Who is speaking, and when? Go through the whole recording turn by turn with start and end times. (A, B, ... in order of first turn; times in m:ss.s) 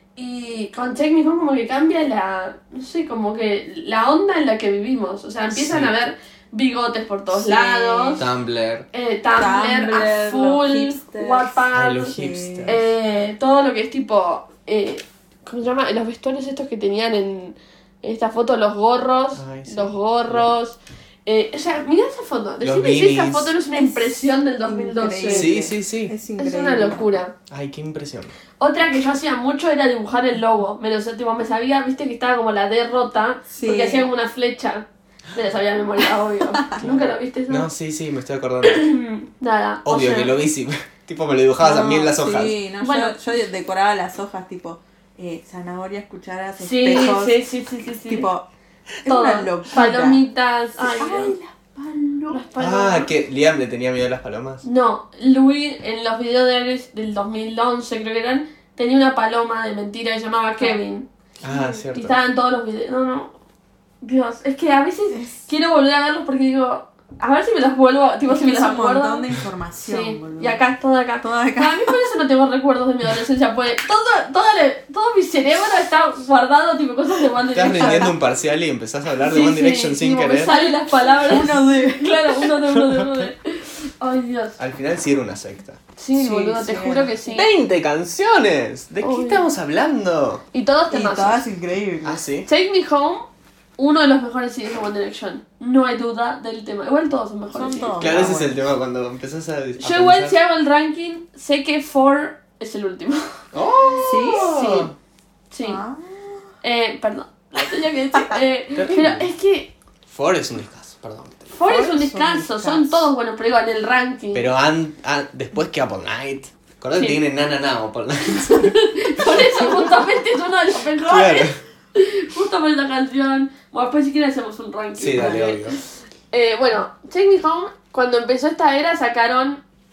0:00.2-0:08.2 A
0:05.5-0:05.9 B
0:07.3-0:08.2 C
0:08.2-0:08.9 B
0:08.9-0:25.6 A
0:09.4-0:12.8 C
0:11.7-0:12.8 B
0:19.4-0:20.5 B
0:22.6-0:23.5 B
0:23.8-0:27.1 C
0:25.3-0:26.1 B
0:26.4-0:27.3 A
0:27.5-0:28.3 B
0:28.6-0:37.7 A
0:33.5-0:34.1 C
0:36.8-0:38.9 B
0:38.6-0:40.4 A
0:39.8-0:42.6 B
0:41.6-0:47.4 C
0:42.8-0:43.2 A
0:46.6-0:48.3 A
0:48.0-0:48.4 C
0:49.0-0:50.2 C
0:49.0-0:51.4 A
0:50.8-0:52.5 C
0:52.3-0:53.1 A
0:52.6-0:54.6 B
0:54.6-1:01.1 A
1:01.4-1:02.2 B
1:01.4-1:01.8 C
1:01.9-1:03.3 A
1:04.0-1:09.3 A
1:05.1-1:05.4 C
1:08.3-1:10.6 C
1:09.8-1:18.1 A
1:11.2-1:11.9 C
1:17.5-1:20.5 B
1:17.7-1:18.1 C
1:19.2-1:24.6 A
1:20.4-1:22.4 C
1:22.7-1:23.3 B
1:24.6-1:25.8 B
1:26.0-1:27.5 A
1:26.1-1:27.1 C
1:27.3-1:30.4 B
1:29.0-1:29.4 A
1:30.5-1:31.4 A
1:30.9-1:32.2 C
1:32.0-1:32.5 B
1:32.4-1:38.4 A
1:37.5-1:38.6 C
1:38.0-1:40.4 B
1:39.8-1:43.4 A
1:43.5-1:44.9 B
1:44.0-1:44.6 C
1:44.0-1:44.9 A
1:45.5-1:45.8 A
1:45.6-1:46.4 C
1:46.6-1:49.7 A
1:48.8-1:49.3 B
1:50.1-1:51.5 B
1:51.5-1:54.5 A
1:51.6-1:53.1 C
1:54.3-1:59.9 B
1:56.9-1:57.2 A
1:58.4-2:09.6 A
2:01.0-2:01.6 B
2:05.0-2:05.8 B
2:05.1-2:05.4 C